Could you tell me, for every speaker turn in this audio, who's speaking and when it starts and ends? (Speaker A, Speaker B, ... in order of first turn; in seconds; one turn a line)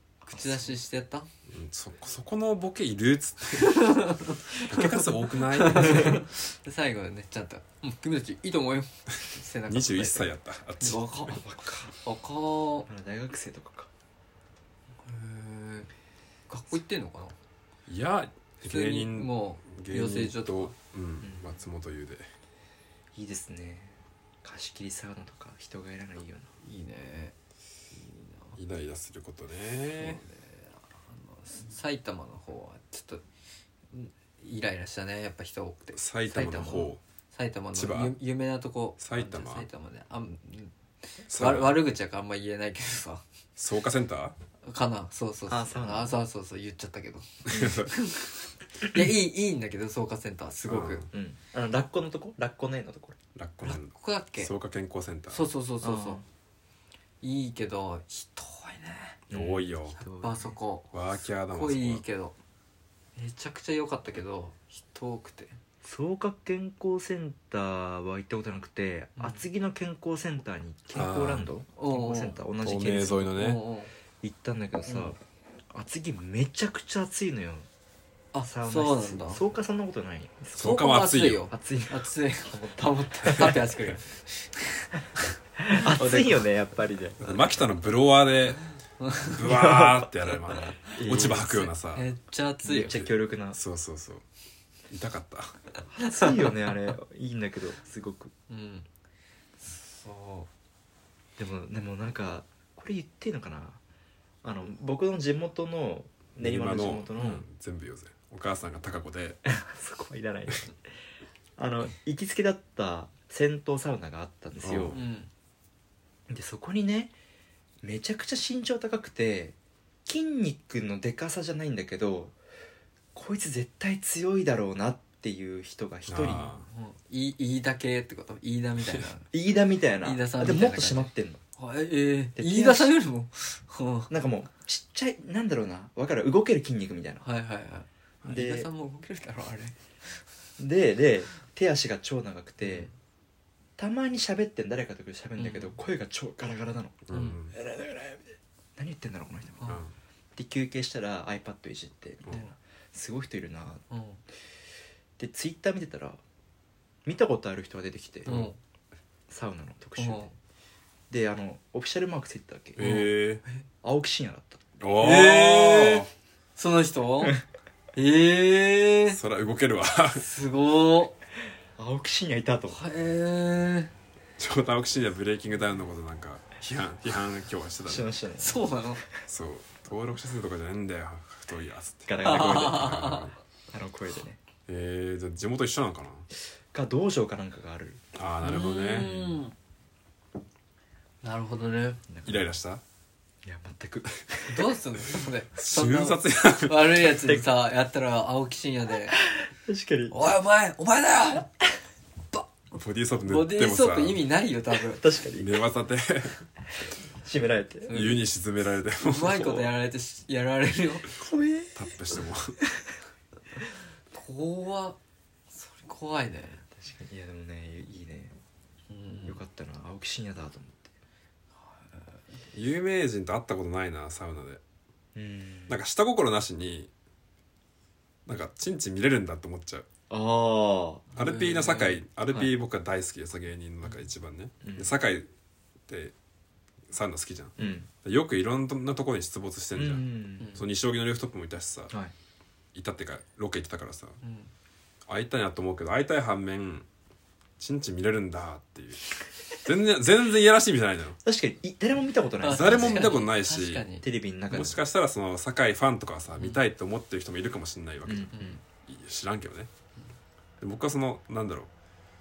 Speaker A: 0.3-1.3
Speaker B: 1.5-4.1
Speaker A: 3.6-10.3
Speaker B: 4.6-6.2
Speaker B: 9.7-11.3
Speaker A: 10.8-11.4
Speaker C: 11.4-11.9
Speaker A: 12.0-12.9
Speaker C: 12.9-13.9
Speaker A: 15.0-15.9
Speaker A: 16.5-17.4
Speaker B: 17.9-22.3
Speaker A: 18.7-20.7
Speaker C: 23.1-26.5
Speaker A: 26.6-27.4
Speaker A: 27.9-28.6
Speaker B: 28.6-30.2
Speaker A: 30.0-33.2
Speaker A: 33.9-36.5
Speaker B: 36.0-37.0
Speaker C: 36.3-36.9
Speaker A: 37.3-40.7
Speaker B: 37.7-38.1
Speaker B: 39.0-39.7
Speaker B: 41.3-41.8
Speaker A: 41.3-43.2
Speaker B: 43.6-44.3
Speaker A: 44.6-51.1
Speaker C: 45.5-46.1
Speaker B: 47.5-47.9
Speaker B: 50.7-51.1
Speaker C: 51.1-53.2
Speaker B: 53.4-55.4
Speaker A: 53.6-54.5
Speaker A: 55.3-56.2
Speaker C: 55.8-56.2
Speaker A: 57.2-59.2
Speaker C: 59.3-60.5
Speaker B: 59.3-60.0
Speaker A: 60.0-60.9
Speaker B: 60.9-62.0
Speaker A: 61.5-62.4
Speaker A: 63.2-65.6
Speaker C: 65.8-73.3
Speaker A: 69.2-69.4
Speaker B: 70.9-71.5
Speaker A: 71.8-72.4
Speaker B: 72.6-73.6
Speaker A: 73.4-73.9
Speaker C: 74.2-75.2
Speaker A: 74.9-75.2
Speaker C: 75.7-77.7
Speaker A: 78.3-79.4
Speaker C: 78.4-80.8
Speaker B: 80.5-81.5
Speaker A: 80.6-86.5
Speaker C: 81.5-83.5
Speaker C: 85.7-87.2
Speaker B: 87.2-88.6
Speaker A: 89.0-89.4
Speaker B: 89.3-92.1
Speaker C: 89.4-90.1
Speaker A: 90.9-92.9
Speaker C: 91.0-91.5
Speaker C: 92.6-93.6
Speaker B: 92.9-94.2
Speaker B: 94.9-95.6
Speaker A: 96.0-97.0
Speaker C: 96.1-98.3
Speaker A: 98.5-98.9
Speaker A: 99.6-100.5
Speaker C: 101.4-103.8
Speaker C: 104.4-107.5
Speaker B: 106.4-109.4
Speaker C: 109.5-110.8
Speaker C: 111.6-115.0
Speaker B: 114.6-115.0
Speaker A: 114.9-115.3
Speaker C: 116.3-117.1
Speaker C: 117.8-122.4
Speaker C: 123.1-126.5
Speaker B: 126.1-126.7
Speaker A: 126.3-129.3
Speaker C: 129.3-131.4
Speaker A: 130.0-134.1
Speaker C: 132.4-132.9
Speaker C: 134.1-137.2
Speaker A: 137.2-139.8
Speaker C: 138.2-138.7
Speaker C: 140.6-142.9
Speaker A: 142.6-142.9
Speaker C: 143.8-149.7
Speaker A: 145.4-145.8
Speaker B: 147.1-147.5
Speaker A: 147.1-147.4
Speaker C: 150.4-153.8
Speaker A: 153.9-154.2
Speaker C: 155.2-156.2
Speaker C: 157.1-158.3
Speaker A: 158.3-158.6
Speaker C: 159.3-160.3
Speaker A: 160.0-160.3
Speaker C: 161.1-162.8
Speaker B: 162.8-163.4
Speaker A: 162.8-163.7
Speaker C: 163.8-164.6
Speaker B: 164.8-166.1
Speaker A: 165.0-167.4
Speaker A: 167.9-169.2
Speaker B: 169.1-170.2
Speaker A: 170.2-171.2
Speaker C: 171.8-172.8
Speaker A: 172.7-173.9
Speaker B: 174.4-178.1
Speaker C: 177.9-178.6
Speaker A: 178.4-179.0
Speaker B: 179.3-183.3
Speaker C: 182.1-182.9
Speaker A: 182.2-183.3
Speaker C: 183.7-184.4
Speaker B: 184.7-186.3
Speaker C: 186.7-188.0
Speaker B: 188.2-189.1
Speaker A: 188.4-189.5
Speaker C: 189.0-189.3
Speaker A: 191.2-192.0
Speaker C: 192.1-192.5
Speaker B: 192.2-192.8
Speaker C: 193.4-194.7
Speaker A: 194.5-199.2
Speaker B: 195.6-196.9
Speaker C: 199.2-200.3
Speaker A: 200.1-201.5
Speaker B: 202.7-204.2
Speaker A: 203.3-205.0
Speaker C: 204.9-205.5
Speaker B: 205.3-206.5
Speaker C: 207.2-207.9
Speaker A: 207.9-208.2
Speaker B: 207.9-209.7
Speaker A: 209.0-211.1
Speaker C: 211.2-211.8
Speaker B: 211.8-212.6
Speaker A: 214.1-215.0
Speaker A: 215.5-216.6
Speaker C: 216.8-218.3
Speaker A: 218.9-219.4
Speaker C: 219.3-220.9
Speaker A: 221.7-222.2
Speaker B: 222.5-224.6
Speaker C: 225.2-225.8
Speaker B: 225.7-226.9
Speaker B: 228.3-229.9
Speaker C: 230.1-231.1
Speaker A: 231.2-232.0
Speaker B: 231.2-235.3
Speaker C: 234.6-234.9
Speaker B: 235.9-236.2
Speaker B: 236.9-241.9
Speaker C: 237.6-237.9
Speaker C: 239.8-240.5
Speaker B: 242.8-244.2
Speaker A: 244.2-244.5
Speaker B: 245.1-246.9
Speaker B: 247.6-251.2
Speaker C: 251.2-253.2
Speaker A: 252.4-254.0
Speaker B: 252.5-253.8
Speaker C: 254.0-254.8
Speaker B: 254.5-259.7
Speaker C: 258.1-258.6
Speaker A: 258.3-258.6
Speaker B: 260.6-261.7